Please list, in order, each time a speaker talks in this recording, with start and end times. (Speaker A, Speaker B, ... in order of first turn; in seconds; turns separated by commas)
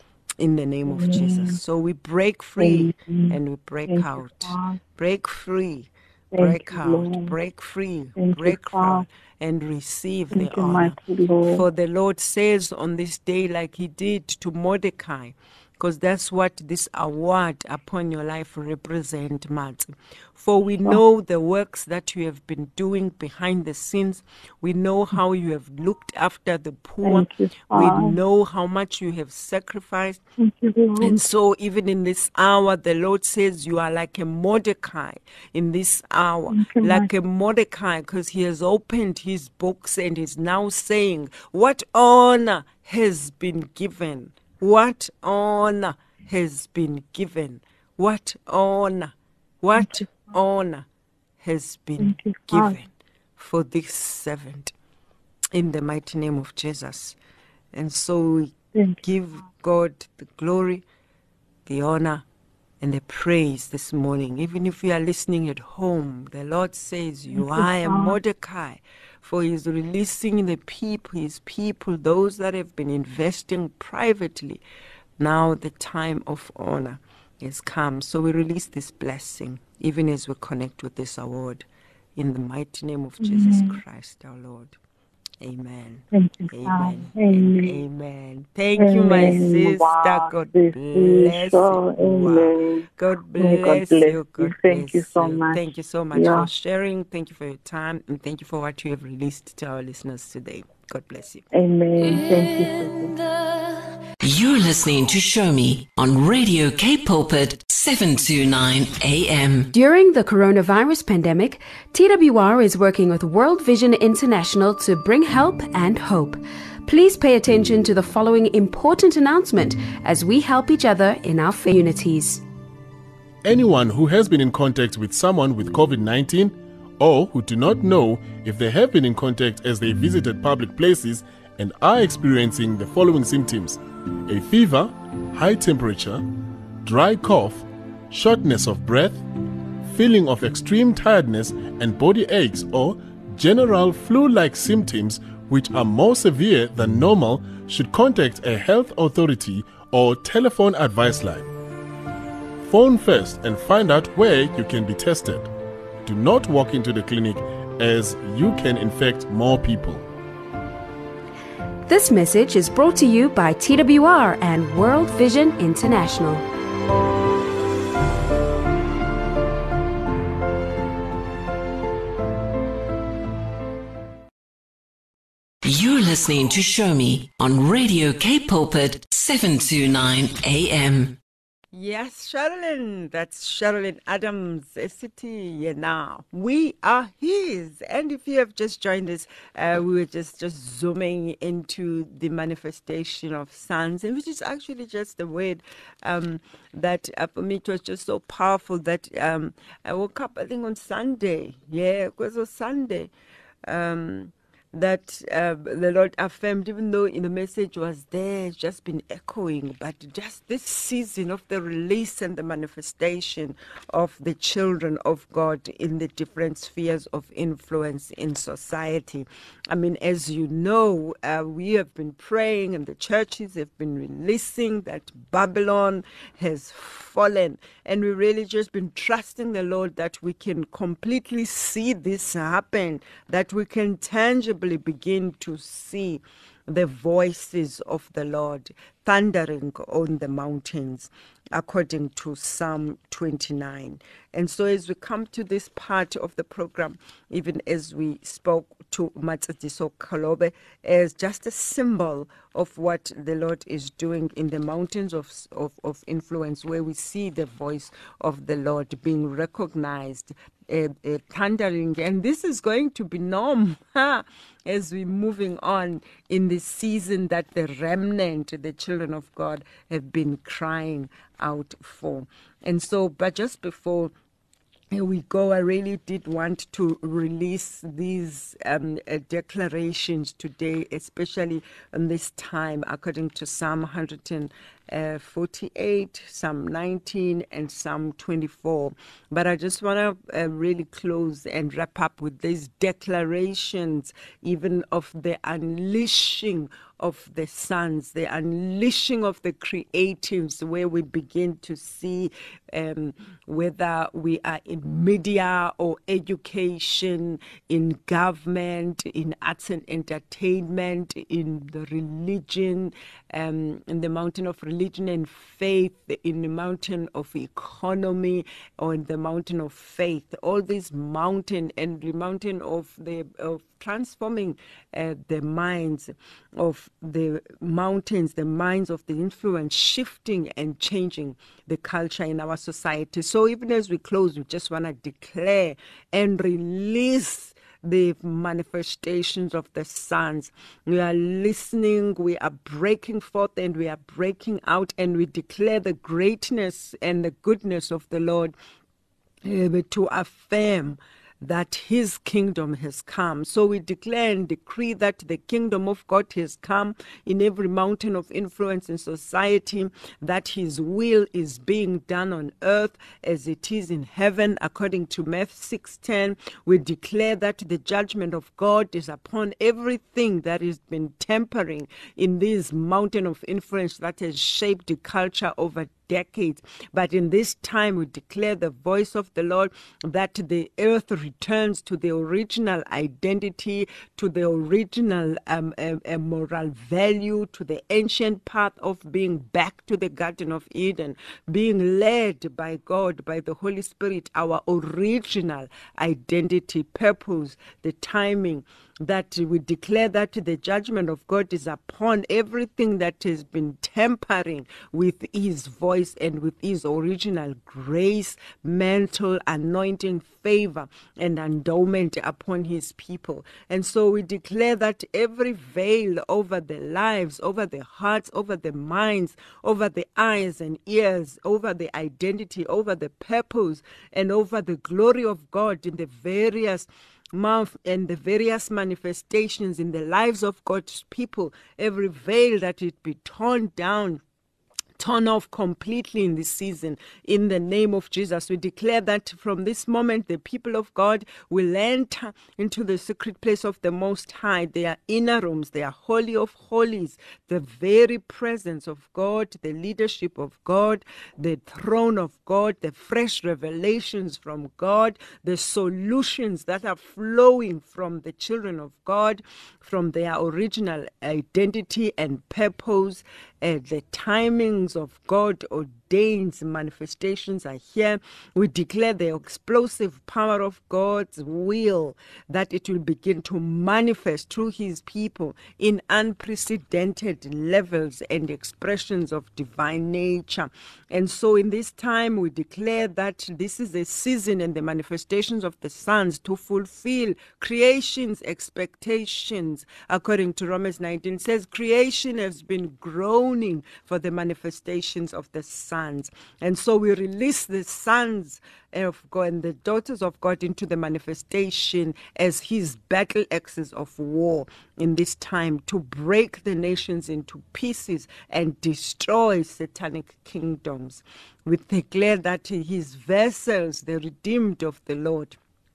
Speaker A: 0.4-30.2, Speaker B: 0.9-1.6, Speaker B: 2.6-4.8, Speaker B: 6.3-7.3, Speaker B: 8.2-9.1, Speaker B: 10.3-11.6, Speaker B: 27.0-28.2, Speaker B: 30.4-31.2, Speaker A: 31.0-50.9, Speaker B: 36.5-37.1, Speaker B: 49.8-50.1, Speaker A: 51.4-54.7, Speaker B: 52.0-52.8, Speaker A: 55.5-57.1, Speaker A: 57.7-60.8, Speaker B: 58.7-59.0, Speaker A: 61.6-62.2, Speaker A: 62.8-74.6, Speaker B: 67.3-68.1, Speaker A: 75.2-84.8, Speaker B: 83.2-83.8, Speaker A: 85.4-101.5, Speaker B: 86.1-87.8, Speaker B: 88.8-96.5, Speaker B: 101.5-103.2, Speaker C: 104.2-109.7, Speaker D: 109.7-122.4, Speaker E: 123.4-136.2, Speaker E: 136.8-139.2, Speaker E: 139.8-151.5, Speaker E: 152.6-155.5, Speaker E: 156.0-160.0, Speaker D: 161.8-166.4, Speaker C: 175.6-181.2, Speaker A: 181.7-203.1, Speaker A: 203.6-274.1, Speaker A: 274.9-348.5, Speaker A: 349.4-434.2, Speaker A: 435.0-515.6